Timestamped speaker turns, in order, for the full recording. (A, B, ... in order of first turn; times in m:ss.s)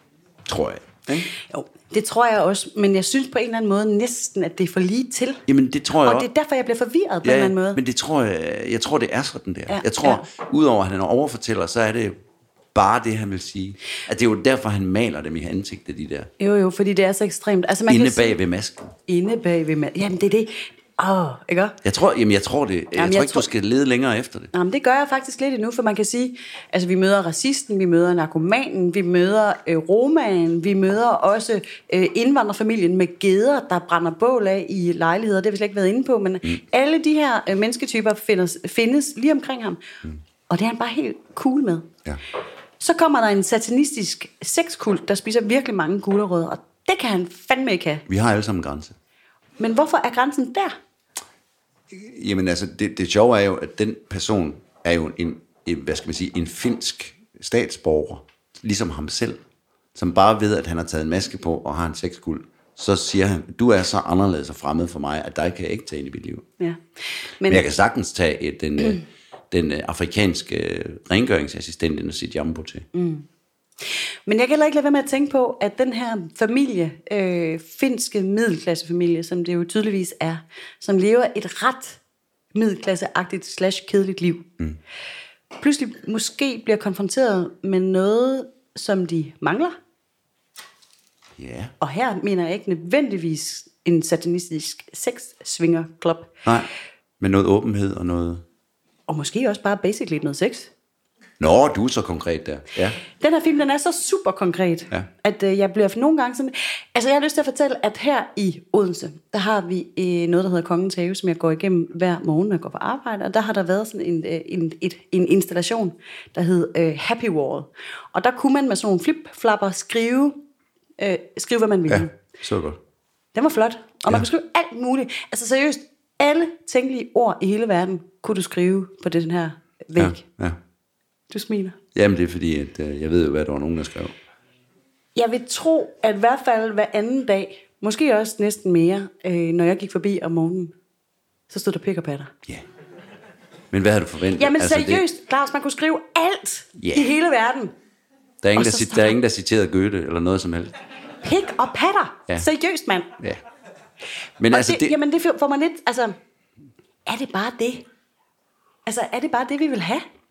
0:00.4-0:01.3 A
0:01.3-0:05.4 B
0:05.5-0:06.3 A
0:06.0-0:07.8 B
0:07.2-0:12.1 A
0:09.7-0:10.2 B
0:12.7-0:16.3 A
0:16.4-0:18.4 B
0:17.9-0:18.9 A
0:19.1-0:21.8 B
0:21.8-0:24.5 A
0:23.0-0:23.5 B
0:24.5-0:39.8 B
0:40.5-0:41.9 B
0:42.8-0:48.0 B
0:48.1-0:48.9 A
0:49.6-0:50.8 B
0:51.9-0:59.4 A
0:59.9-1:06.4 A
1:06.6-1:07.6 B
1:07.4-1:12.8 A
1:12.9-1:13.3 B
1:13.8-1:22.0 B
1:22.5-1:24.5 B
1:25.6-1:29.8 B
1:31.4-1:31.7 A
1:31.8-1:36.3 B
1:37.2-1:38.4 A
1:39.1-1:40.7 B
1:41.4-1:43.0 A
1:43.0-2:00.4 B
2:01.0-2:02.1 B
2:01.9-2:02.8 A
2:03.3-2:10.2 B
2:10.0-2:10.6 A
2:11.3-2:11.8 B
2:11.9-2:14.1 A
2:15.1-2:20.7 B
2:21.5-2:22.3 B
2:23.7-2:25.0 A
2:24.4-2:27.7 B
2:26.8-2:27.1 A
2:28.4-2:30.7 A
2:28.6-2:29.2 B
2:31.2-2:33.2 B
2:34.4-2:34.9 A
2:34.5-2:36.2 B
2:37.0-2:37.8 B
2:38.8-2:40.0 B